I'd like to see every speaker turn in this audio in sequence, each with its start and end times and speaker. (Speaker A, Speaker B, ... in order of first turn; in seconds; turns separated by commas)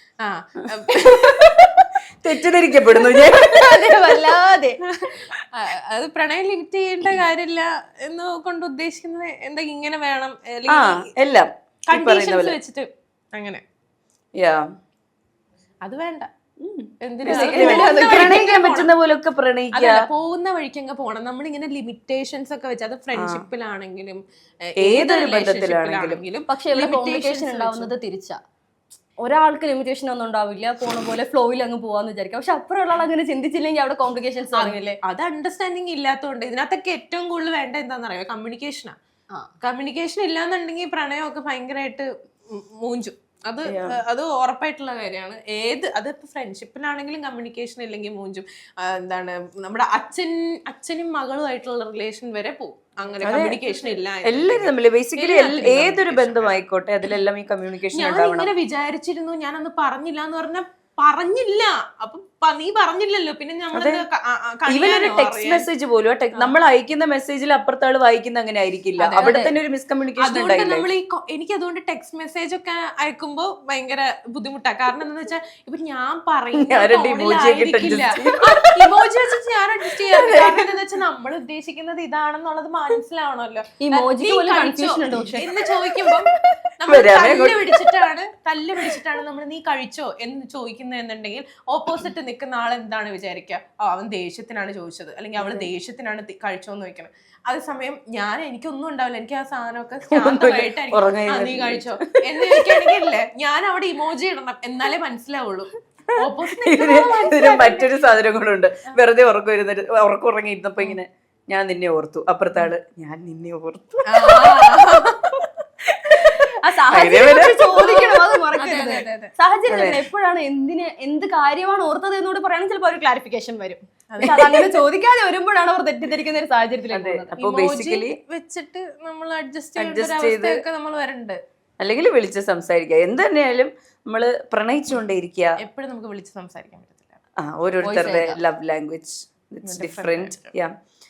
Speaker A: 0.2-1.9, Speaker B: 0.9-1.6, Speaker B: 2.2-3.8, Speaker C: 3.4-4.8, Speaker A: 4.8-11.1, Speaker B: 10.7-12.6, Speaker A: 11.9-13.6, Speaker B: 14.4-14.7, Speaker A: 15.8-16.3, Speaker B: 16.6-20.1, Speaker A: 17.0-18.9, Speaker C: 17.3-18.1, Speaker A: 19.7-27.9, Speaker B: 23.1-23.4, Speaker B: 24.8-26.2, Speaker C: 26.5-28.4, Speaker C: 29.2-35.0, Speaker A: 34.5-38.9, Speaker A: 39.6-56.5, Speaker B: 43.7-44.0, Speaker B: 53.2-53.6, Speaker B: 54.2-58.5, Speaker A: 57.9-65.7, Speaker B: 63.7-64.0, Speaker B: 64.7-70.9, Speaker A: 69.0-69.4, Speaker C: 69.2-69.5, Speaker A: 70.2-107.9, Speaker B: 76.5-78.9, Speaker B: 80.0-80.7, Speaker C: 83.8-85.5, Speaker B: 86.9-87.7, Speaker B: 100.1-102.9, Speaker B: 106.5-114.8, Speaker A: 114.1-115.4, Speaker B: 115.8-117.7, Speaker C: 116.6-127.3, Speaker A: 117.8-119.3, Speaker B: 119.7-120.0, Speaker A: 124.1-124.6, Speaker B: 124.2-124.6, Speaker B: 126.9-128.2, Speaker A: 127.4-131.4, Speaker B: 129.8-130.6, Speaker B: 131.8-135.6, Speaker A: 135.6-137.2, Speaker B: 137.4-140.7, Speaker C: 137.8-138.4, Speaker A: 139.6-140.5